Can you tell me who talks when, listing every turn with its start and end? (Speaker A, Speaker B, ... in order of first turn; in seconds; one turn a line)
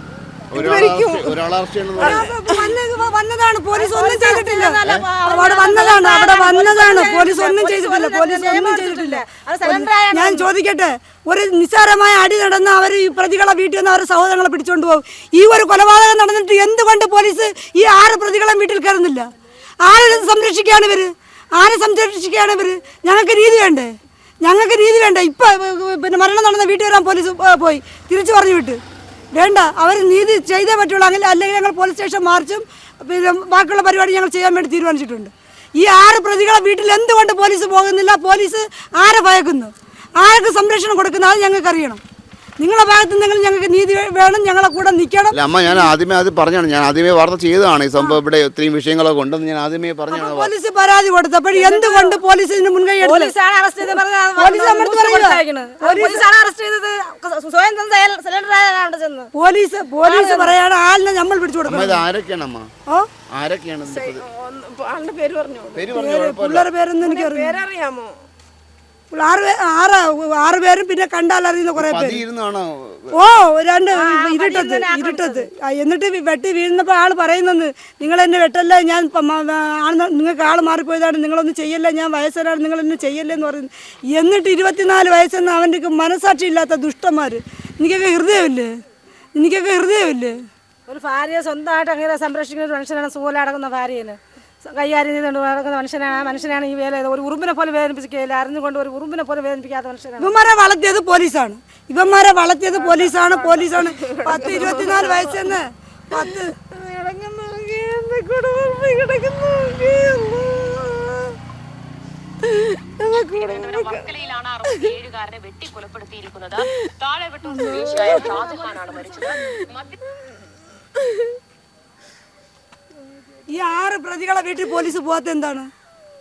Speaker A: 0.5-2.2
Speaker B: 0.5-1.4
Speaker C: 2.0-19.3
Speaker B: 2.0-2.8
Speaker D: 3.7-10.5
Speaker C: 19.8-23.9
Speaker C: 24.4-28.8
Speaker C: 29.3-42.0
Speaker C: 42.6-45.4
Speaker A: 45.3-50.5
Speaker C: 50.1-53.3
Speaker D: 51.5-52.2
Speaker D: 53.0-59.3
Speaker C: 53.9-56.3
Speaker C: 59.3-62.0
Speaker D: 60.0-60.6
Speaker A: 61.7-62.7
Speaker A: 63.3-64.2
Speaker B: 63.9-65.8
Speaker A: 65.7-66.7
Speaker C: 65.9-67.5
Speaker B: 67.0-68.1
Speaker C: 69.1-72.2
Speaker A: 71.8-73.2
Speaker C: 73.1-88.7
Speaker D: 73.9-75.5
Speaker C: 89.3-90.4
Speaker D: 90.9-100.3
Speaker C: 100.2-106.5
Speaker B: 102.7-105.5
Speaker B: 106.1-111.3
Speaker B: 112.4-115.0
Speaker E: 113.5-119.3
Speaker B: 117.4-119.6
Speaker C: 123.5-125.7